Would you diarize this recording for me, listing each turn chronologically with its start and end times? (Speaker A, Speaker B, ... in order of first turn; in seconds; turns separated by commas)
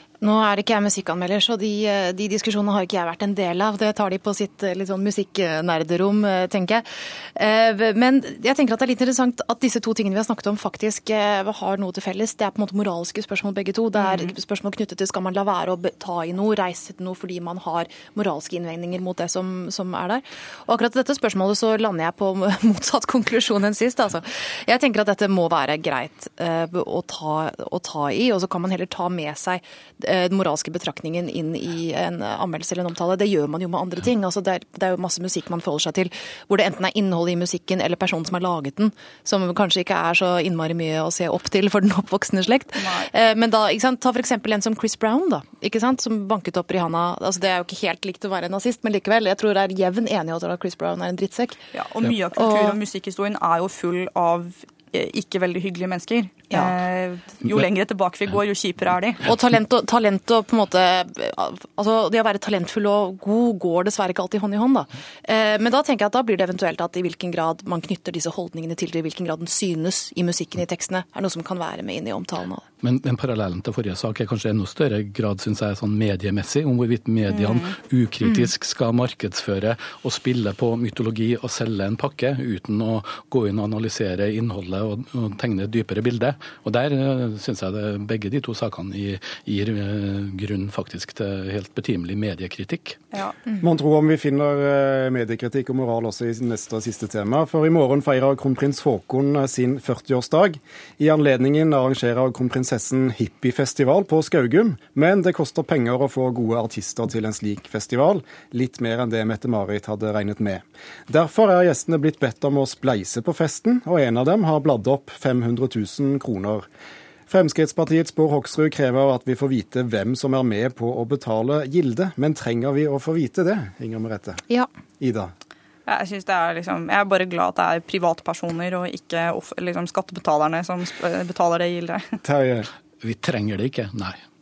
Speaker A: 0.2-51.6, Speaker B: 14.0-14.2, Speaker B: 42.8-43.1, Speaker B: 51.7-59.3, Speaker A: 52.4-52.8, Speaker A: 59.2-72.6, Speaker C: 72.8-93.0, Speaker B: 77.3-77.7, Speaker B: 93.1-93.4, Speaker D: 93.6-116.7, Speaker D: 117.3-124.4, Speaker D: 125.0-125.3, Speaker B: 125.8-132.2, Speaker D: 132.2-132.7, Speaker C: 133.0-134.2